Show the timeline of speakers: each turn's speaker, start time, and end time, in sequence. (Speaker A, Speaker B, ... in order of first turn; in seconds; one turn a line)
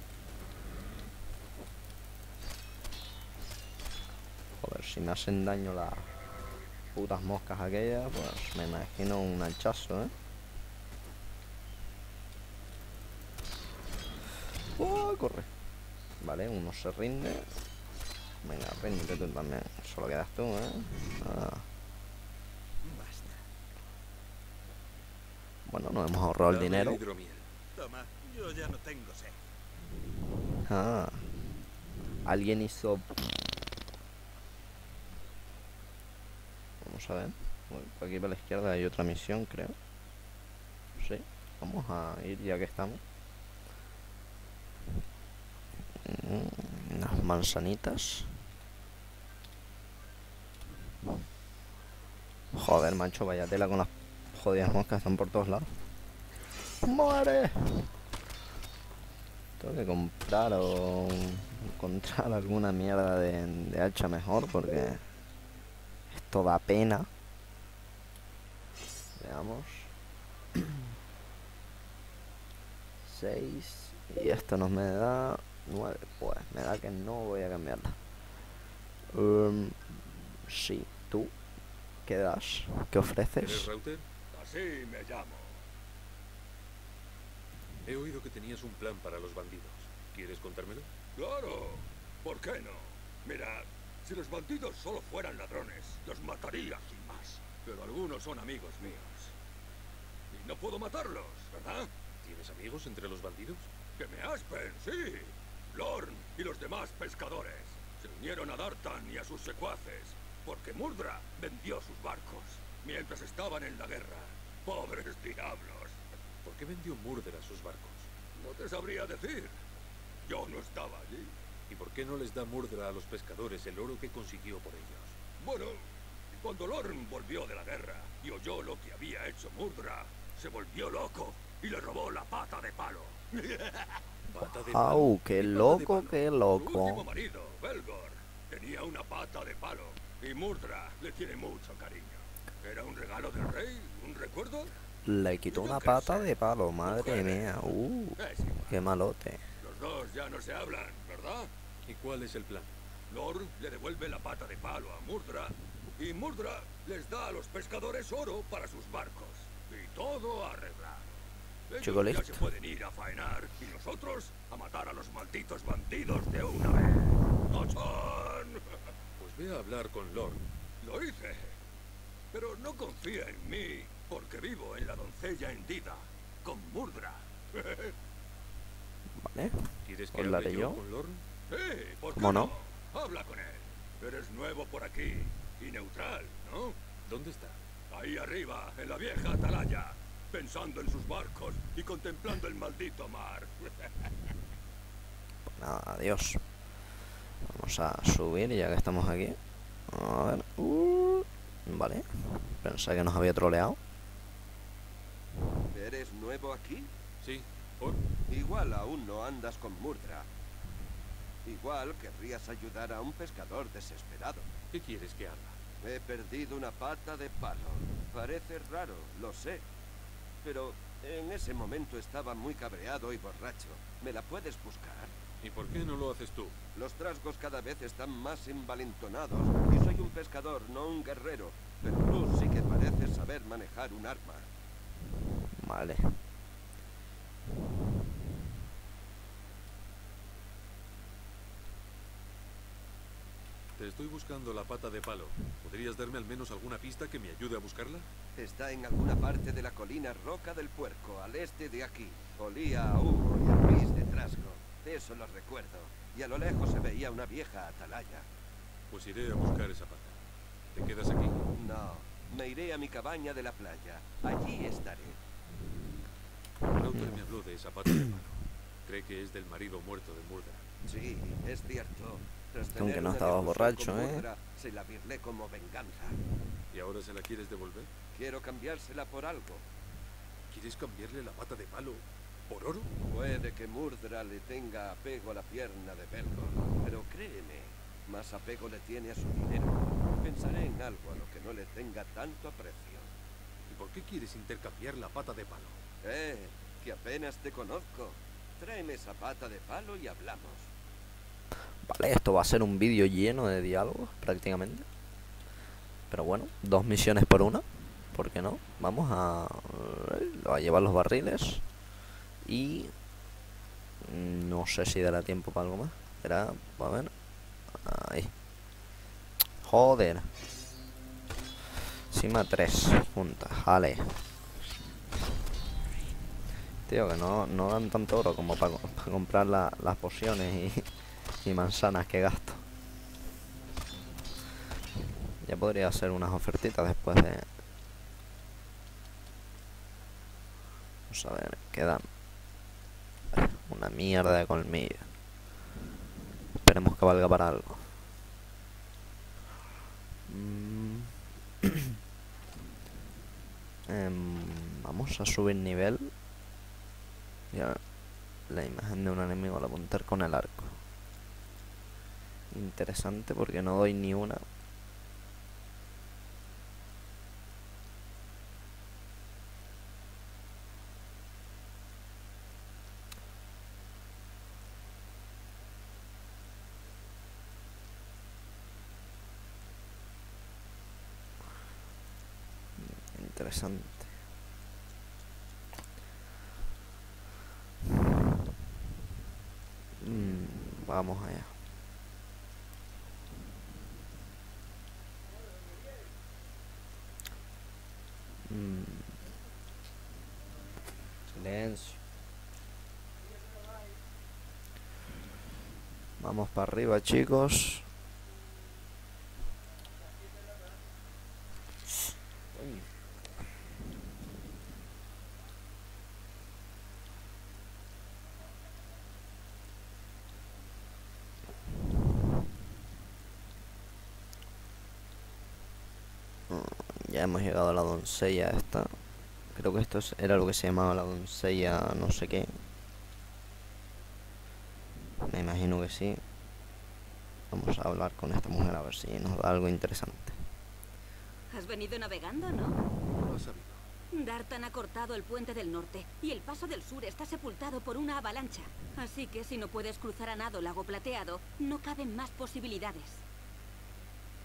Speaker A: 4.6-6.2
Speaker A: 6.9-10.1
Speaker A: 14.8-15.5
Speaker A: 16.2-17.5
Speaker A: 18.4-21.6
Speaker B: 22.8-23.4
Speaker A: 25.6-27.0
Speaker C: 26.4-27.5
Speaker B: 27.7-29.4
Speaker A: 30.6-31.3
Speaker A: 32.2-33.1
Speaker A: 36.8-39.8
Speaker A: 41.0-43.0
Speaker A: 46.0-48.4
Speaker A: 52.5-55.8
Speaker A: 56.8-57.9
Speaker A: 59.6-65.0
Speaker A: 66.1-67.1
Speaker A: 69.2-69.9
Speaker A: 73.0-78.0
Speaker A: 79.1-81.3
Speaker A: 82.0-83.7
Speaker C: 83.4-84.1
Speaker D: 84.3-85.6
Speaker C: 87.8-90.9
Speaker D: 91.2-99.3
Speaker D: 100.3-101.9
Speaker C: 102.2-103.7
Speaker D: 104.0-116.0
Speaker C: 116.4-118.1
Speaker D: 118.3-119.6
Speaker D: 120.2-121.3
Speaker C: 121.7-125.2
Speaker D: 125.4-125.8
Speaker D: 126.4-134.0
Speaker C: 134.3-136.2
Speaker A: 134.7-137.1
Speaker D: 136.5-144.7
Speaker A: 145.0-149.4
Speaker D: 145.4-146.3
Speaker D: 146.8-147.6
Speaker D: 148.2-148.8
Speaker D: 149.6-151.5
Speaker C: 151.8-152.7
Speaker D: 153.1-161.1
Speaker D: 161.7-168.6
Speaker A: 161.8-162.5
Speaker C: 169.2-170.4
Speaker D: 170.8-171.6
Speaker D: 172.3-177.9
Speaker A: 179.2-180.8
Speaker C: 179.8-181.2
Speaker D: 181.5-186.8
Speaker A: 182.1-182.5
Speaker C: 187.0-187.6
Speaker D: 187.9-194.1
Speaker A: 195.5-196.4
Speaker A: 197.4-203.8
Speaker E: 205.7-206.9
Speaker C: 207.2-208.0
Speaker E: 208.3-210.3
Speaker E: 211.4-214.5
Speaker C: 214.7-215.6
Speaker E: 215.8-219.6
Speaker E: 220.4-225.1
Speaker C: 225.4-226.5
Speaker E: 226.7-234.5
Speaker A: 235.5-236.2
Speaker C: 243.8-248.1
Speaker E: 248.3-258.2
Speaker C: 258.9-260.2
Speaker C: 260.7-261.4
Speaker E: 261.5-265.2
Speaker C: 266.7-270.6
Speaker E: 270.8-276.2
Speaker A: 272.7-274.2
Speaker C: 276.7-277.9
Speaker E: 278.1-279.6
Speaker C: 280.5-282.9
Speaker E: 283.1-293.1
Speaker C: 293.7-295.8
Speaker E: 296.0-300.7
Speaker A: 301.8-304.9
Speaker A: 306.1-311.6
Speaker A: 312.4-312.9
Speaker A: 314.0-317.1
Speaker A: 317.8-318.3
Speaker A: 319.6-320.3
Speaker A: 322.1-324.2
Speaker A: 326.9-330.9
Speaker A: 331.4-332.6
Speaker A: 335.4-337.5
Speaker A: 341.1-342.1
Speaker A: 343.3-345.1
Speaker A: 346.6-347.9
Speaker A: 350.3-351.7
Speaker A: 353.9-356.1
Speaker A: 357.5-357.8
Speaker A: 358.5-360.8
Speaker A: 362.5-364.4
Speaker A: 382.8-384.1
Speaker A: 390.0-391.6
Speaker A: 398.5-399.2
Speaker A: 401.3-402.0
Speaker A: 406.2-407.9
Speaker A: 412.5-412.8
Speaker A: 426.5-429.0
Speaker A: 429.5-432.6
Speaker A: 435.2-436.2
Speaker A: 437.5-440.4
Speaker F: 441.5-442.8
Speaker C: 443.2-443.8
Speaker F: 444.1-453.2